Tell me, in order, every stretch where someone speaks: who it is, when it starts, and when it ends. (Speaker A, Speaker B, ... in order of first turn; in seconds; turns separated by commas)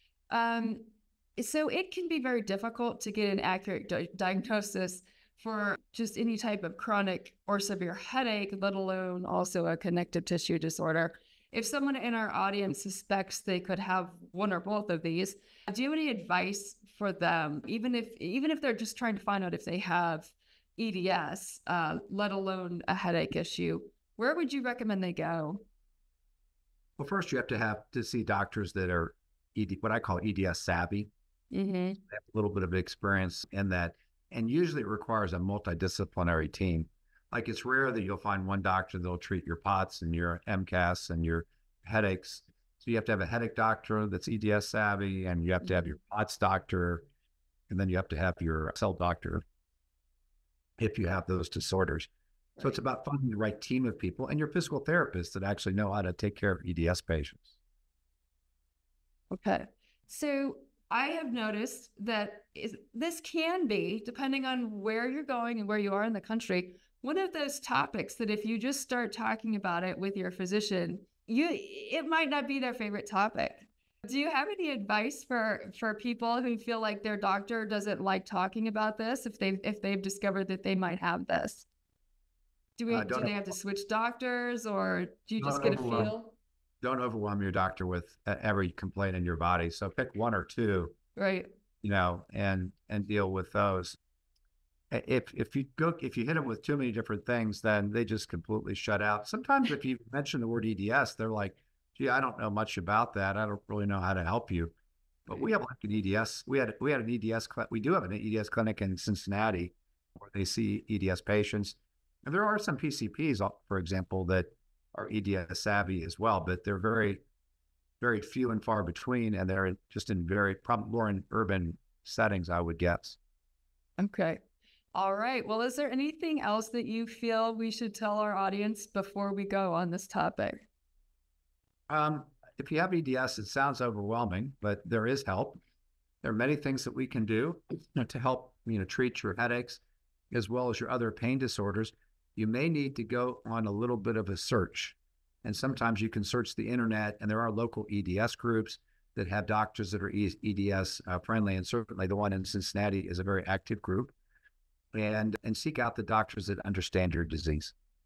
Speaker A: 0.3-25.6, Speaker B: 27.0-31.1, Speaker A: 31.5-32.0, Speaker B: 32.1-47.1, Speaker A: 45.6-45.9, Speaker B: 47.7-49.4, Speaker B: 50.8-57.6, Speaker A: 59.3-81.7, Speaker A: 82.8-86.4, Speaker B: 82.9-83.5, Speaker B: 85.4-86.1, Speaker B: 86.8-91.0, Speaker A: 91.2-91.5, Speaker B: 91.8-94.0, Speaker B: 94.9-104.7, Speaker B: 105.3-117.2, Speaker B: 118.0-123.2, Speaker A: 124.0-124.4, Speaker A: 124.9-130.7, Speaker B: 131.9-135.6, Speaker B: 136.2-154.1, Speaker B: 154.9-157.7